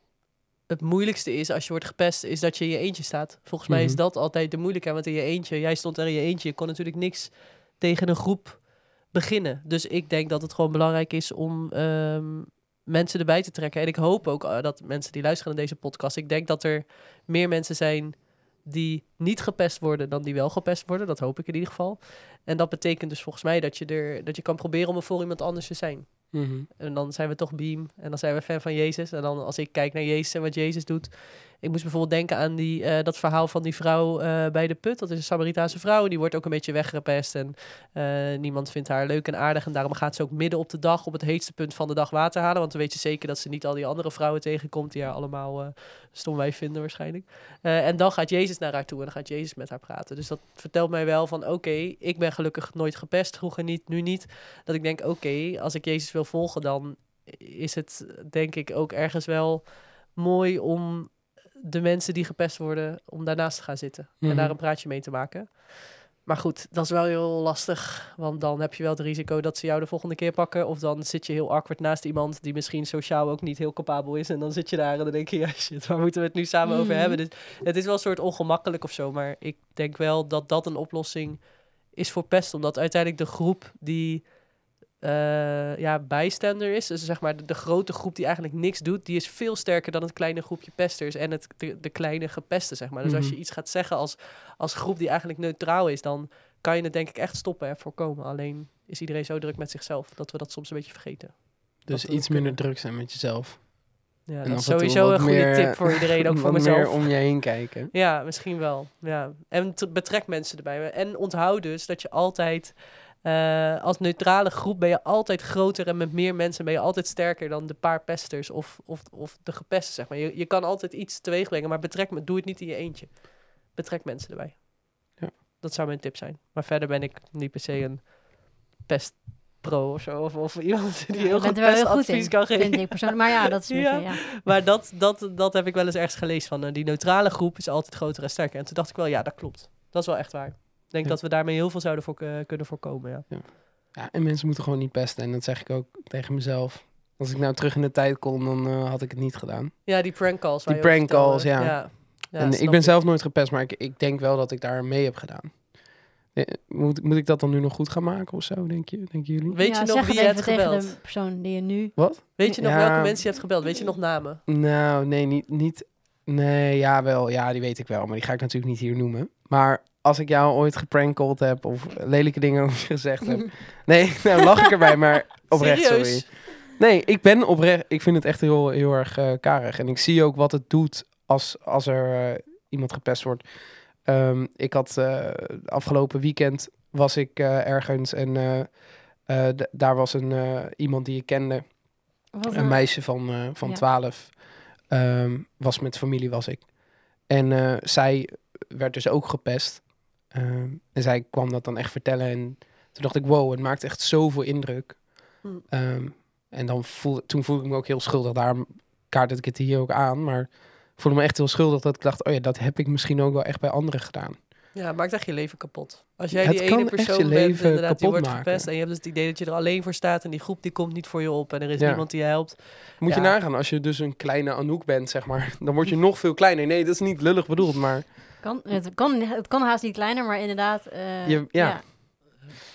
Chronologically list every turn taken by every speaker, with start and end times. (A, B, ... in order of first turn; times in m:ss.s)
0:00.7-1:42.6 A
0:03.7-0:04.0 B
0:26.3-0:26.7 B
1:04.2-1:04.6 B
1:16.6-1:17.2 C
1:33.0-1:33.4 B
1:41.8-1:47.9 B
1:44.2-2:23.3 A
2:11.1-2:14.2 C
2:23.3-2:39.6 B
2:29.8-2:33.0 A
2:39.5-2:41.0 A
2:39.6-2:42.6 C
2:42.0-2:43.2 B
2:42.4-2:44.4 A
2:44.5-3:34.4 B
2:55.5-2:56.3 A
3:12.3-3:13.8 C
3:34.7-3:43.4 A
3:36.3-3:38.7 B
3:41.8-3:48.1 B
3:48.4-3:51.8 C
3:51.2-3:52.0 B